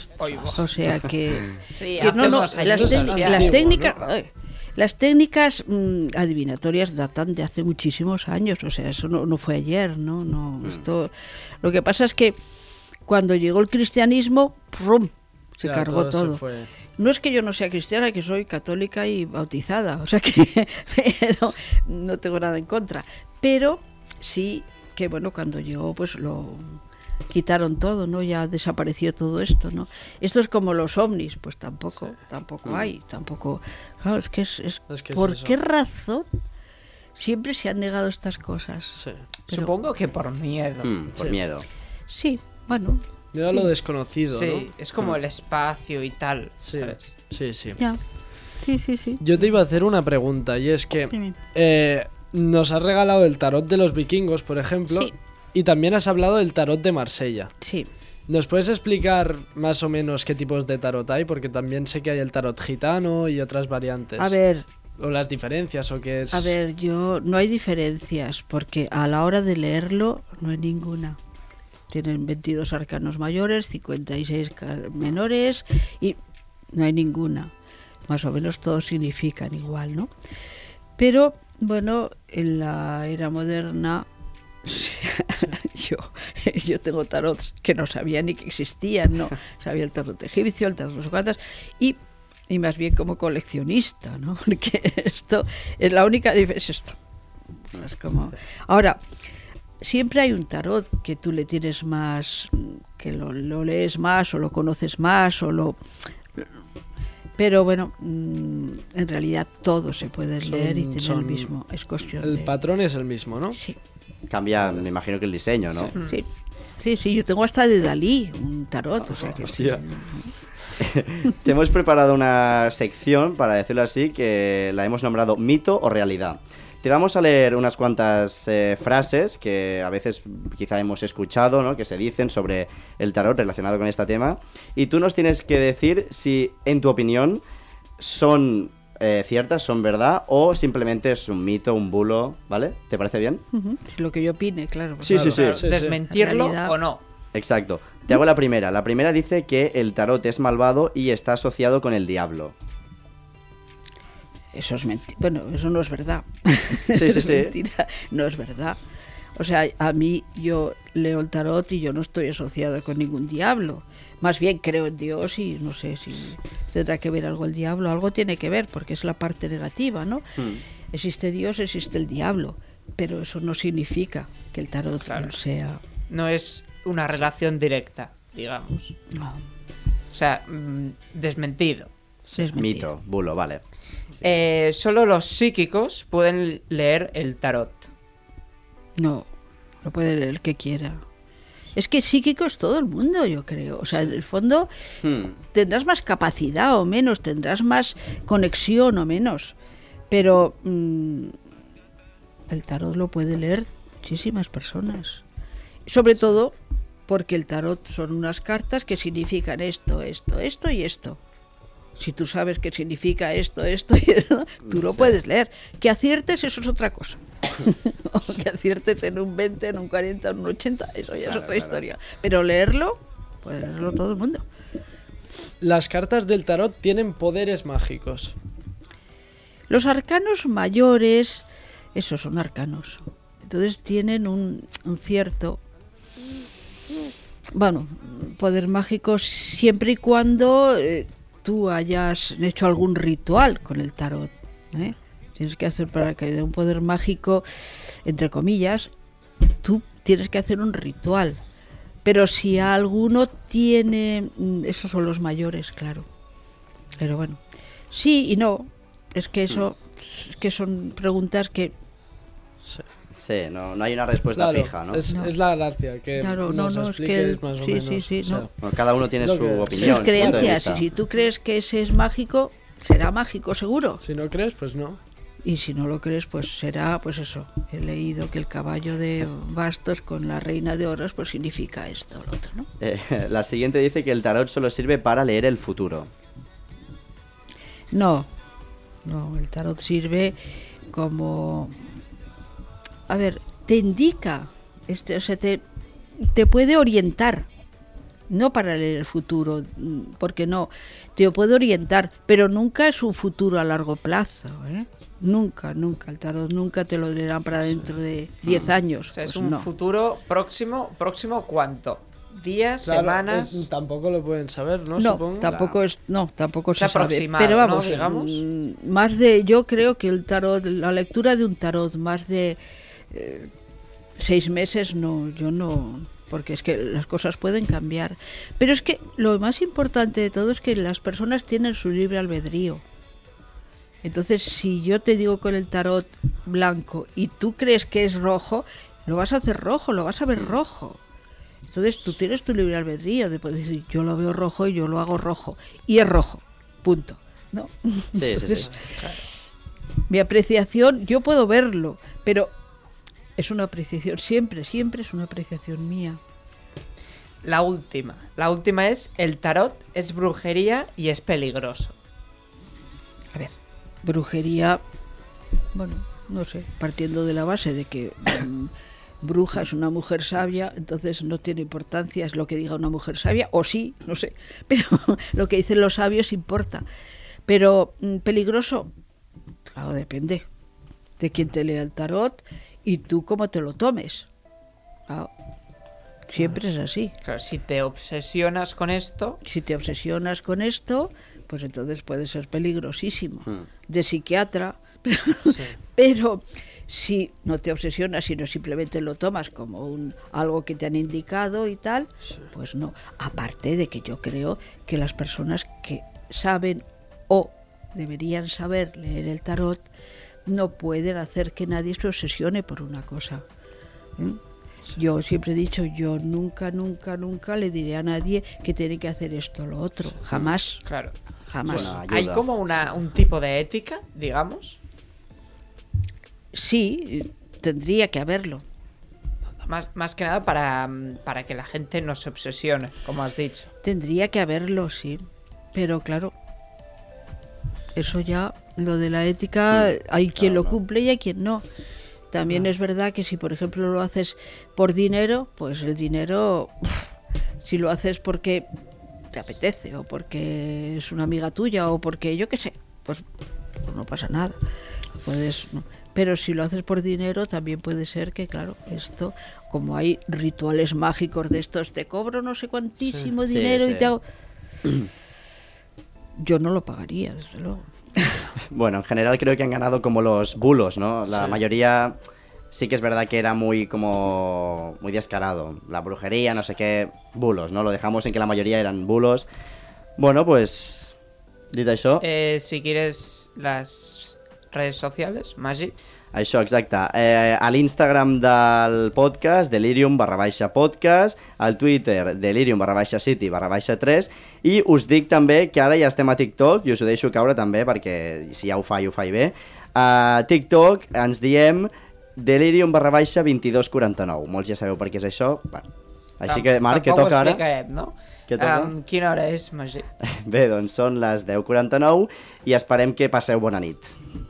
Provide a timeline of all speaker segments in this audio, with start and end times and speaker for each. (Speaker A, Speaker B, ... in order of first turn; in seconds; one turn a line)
Speaker A: 0.2-0.7
Speaker B: 0.4-12.4
Speaker A: 1.7-3.7
Speaker C: 2.0-4.0
Speaker B: 13.1-16.4
Speaker C: 15.6-16.7
Speaker B: 17.0-36.3
Speaker D: 32.6-32.9
Speaker C: 34.9-35.5
Speaker B: 37.2-39.7
Speaker C: 39.0-39.2
Speaker A: 39.5-41.4
Speaker D: 40.8-41.7
Speaker B: 42.1-43.7
Speaker C: 43.3-44.7
Speaker A: 44.3-47.1
Speaker C: 46.6-47.8
Speaker B: 47.8-48.0
Speaker B: 48.5-49.5
Speaker C: 49.2-57.5
Speaker B: 51.1-51.4
Speaker B: 57.6-57.9
Speaker C: 58.3-64.4
Speaker B: 64.2-64.7
Speaker C: 65.0-66.6
Speaker B: 66.3-71.2
Speaker B: 71.9-76.2
Speaker B: 76.7-77.5
Speaker B: 78.1-80.1
Speaker B: 81.0-84.1
Speaker B: 84.6-97.0
Speaker B: 97.7-99.0
Speaker B: 99.8-105.8
Speaker B: 107.4-112.6
Speaker C: 110.4-111.5
Speaker C: 112.2-113.6
Speaker B: 113.5-113.8
Speaker D: 114.3-116.0
Speaker B: 116.8-120.3
Speaker D: 119.2-119.8
Speaker D: 120.8-137.4
Speaker D: 138.0-143.4
Speaker B: 143.5-145.5
Speaker D: 145.0-145.7
Speaker C: 145.1-146.0
Speaker A: 145.2-147.0
Speaker B: 146.1-146.8
Speaker D: 147.3-152.6
Speaker B: 154.5-158.8
Speaker D: 156.9-157.6
Speaker B: 159.3-170.4
Speaker B: 170.9-175.8
Speaker A: 175.0-175.3
Speaker A: 176.1-179.0
Speaker B: 179.1-179.4
Speaker A: 180.1-181.9
Speaker B: 182.3-182.9
Speaker D: 182.6-183.6
Speaker A: 184.2-187.9
Speaker B: 189.0-189.3
Speaker B: 189.8-191.0
Speaker B: 191.8-194.7
Speaker D: 195.0-195.3
Speaker B: 195.5-199.6
Speaker B: 200.1-201.4
Speaker B: 202.5-205.2
Speaker B: 205.9-206.6
Speaker B: 207.1-211.2
Speaker B: 212.0-224.5
Speaker D: 214.7-215.2
Speaker D: 221.2-221.8
Speaker C: 225.6-228.3
Speaker B: 229.7-235.6
Speaker B: 237.5-248.9
Speaker B: 249.6-251.4
Speaker B: 252.1-256.1
Speaker B: 257.0-257.4
Speaker B: 257.9-261.7
Speaker D: 263.1-265.1
Speaker C: 264.4-268.5
Speaker B: 266.2-268.5
Speaker D: 268.6-270.9
Speaker C: 269.2-270.7
Speaker B: 269.7-274.0
Speaker C: 274.0-275.0
Speaker B: 275.4-282.7
Speaker D: 282.8-286.1
Speaker B: 287.9-288.3
Speaker B: 289.1-291.9
Speaker B: 293.1-295.6
Speaker B: 296.2-297.5
Speaker B: 298.3-309.7
Speaker D: 308.4-308.7
Speaker A: 309.1-313.7
Speaker C: 312.8-315.5
Speaker B: 315.0-322.6
Speaker D: 315.4-315.8
Speaker A: 316.8-318.4
Speaker B: 323.1-323.5
Speaker B: 324.2-332.8
Speaker B: 334.0-341.0
Speaker B: 341.7-349.0
Speaker D: 348.1-348.8
Speaker A: 349.0-349.2
Speaker B: 350.1-352.5
Speaker B: 353.4-356.2
Speaker A: 357.4-361.9
Speaker B: 363.3-364.8
Speaker B: 365.7-376.9
Speaker B: 377.5-378.9
Speaker B: 379.8-380.4
Speaker B: 381.2-384.3
Speaker B: 386.3-387.1
Speaker A: 387.2-389.4
Speaker B: 389.4-409.9
Speaker B: 410.5-413.4
Speaker B: 414.9-420.8
Speaker A: 420.9-421.1
Speaker B: 421.5-422.0
Speaker D: 421.7-422.4
Speaker A: 421.7-424.8
Speaker B: 426.5-428.6
Speaker A: 429.6-433.7
Speaker B: 433.8-435.2
Speaker B: 435.7-436.3
Speaker B: 437.9-441.6
Speaker D: 439.7-440.8
Speaker B: 442.3-447.1
Speaker B: 447.6-448.7
Speaker B: 449.3-453.2
Speaker B: 453.8-454.6
Speaker B: 455.2-464.2
Speaker D: 463.4-464.1
Speaker B: 466.4-468.5
Speaker D: 468.6-472.2
Speaker D: 472.7-479.5
Speaker D: 480.2-481.1
Speaker D: 481.7-482.2
Speaker A: 482.2-485.9
Speaker D: 486.3-505.9
Speaker D: 506.4-507.6
Speaker A: 506.5-510.1
Speaker D: 508.5-508.9
Speaker D: 510.2-514.1